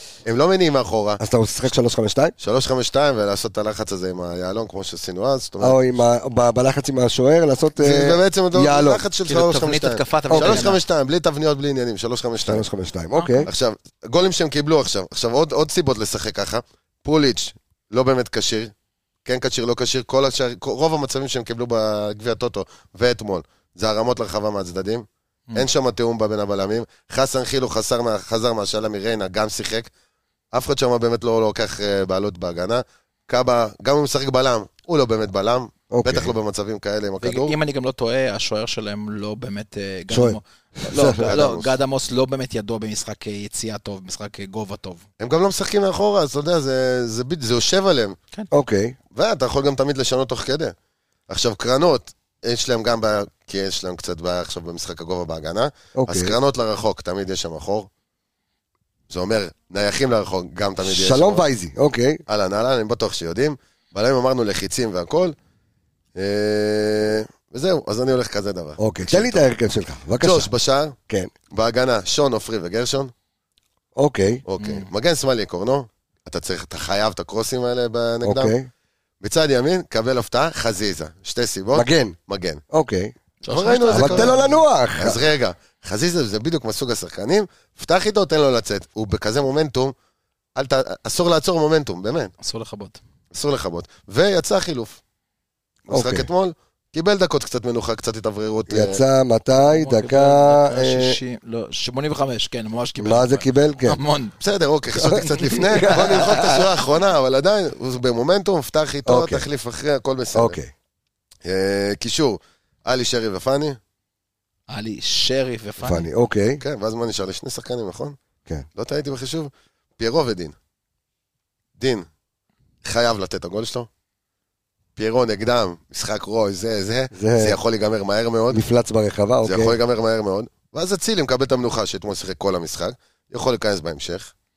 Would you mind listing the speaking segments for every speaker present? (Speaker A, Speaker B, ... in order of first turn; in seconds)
Speaker A: 0.3-1.2, 2.4-6.0, 7.8-12.7, 13.4-18.7, 19.2-29.9, 30.5-37.6, 41.0-41.8, 45.2-48.2, 49.1-50.7, 51.3-57.9, 59.1-61.4, 62.3-65.3, 66.2-69.4, 70.2-71.0, 71.5-73.1, 74.5-78.5, 79.2-82.6, 83.5-84.4, 85.0-89.9, 90.6-92.3, 93.3-95.0, 95.9-99.0, 104.4-110.6, 111.4-113.8, 116.6-118.2, 118.8-120.5, 121.8-122.1, 122.8-123.9, 125.0-128.6, 129.4-134.3
Speaker B: 1.2-2.4, 5.6-9.0, 10.3-10.7, 12.4-13.5, 35.9-36.3, 40.1-41.3, 48.5-49.0, 56.0-56.4, 60.8-62.2, 68.8-70.5, 74.0-74.4, 78.2-78.7, 81.7-82.2, 82.7-83.1, 83.9-85.2, 95.9-96.3, 98.7-101.2, 103.0-104.0, 104.9-106.7, 109.1-109.4, 110.3-110.7, 115.8-116.6, 127.1-127.6, 128.5-129.7
Speaker C: 9.3-10.8, 13.2-13.4, 37.2-45.0, 74.6-74.9, 83.4-84.5, 92.4-93.0, 99.6-104.3, 105.0-106.3, 114.7-116.1